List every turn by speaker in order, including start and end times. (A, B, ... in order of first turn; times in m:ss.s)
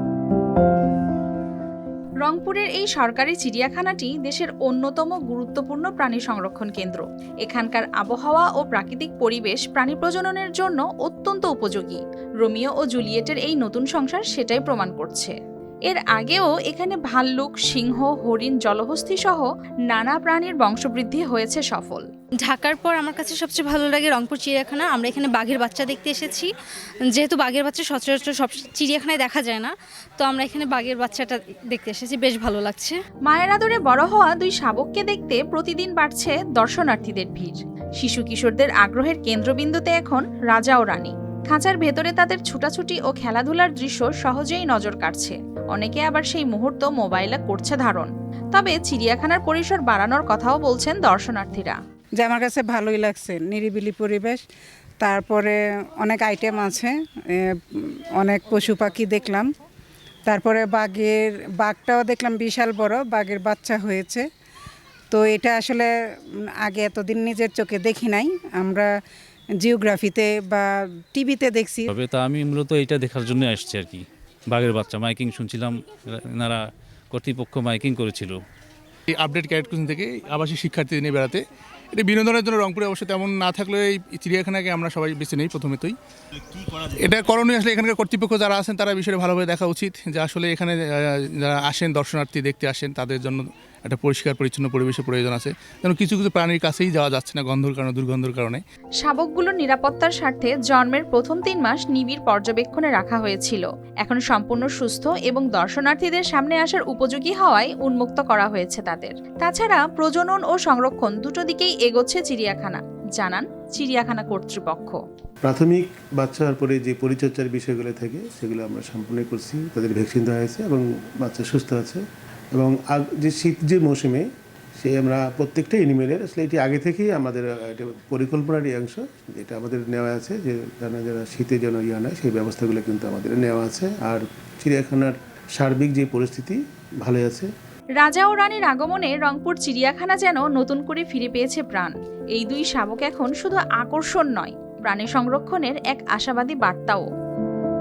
0:02.2-0:22.0 A
0:22.4-0:26.5 B
0:27.1-0:33.0 B
0:33.3-0:51.8 A
0:52.2-0:54.4 C
0:55.0-0:59.5 C
1:00.3-1:04.2 C
1:05.1-1:05.9 C
1:06.6-1:08.9 C
1:09.6-1:11.9 C
1:11.9-1:16.6 D
1:17.1-1:18.4 D
1:19.1-1:26.0 E
1:26.6-1:38.6 E
1:39.0-1:55.0 A
1:55.4-2:04.3 F
2:04.8-2:17.5 F
2:18.0-2:27.1 A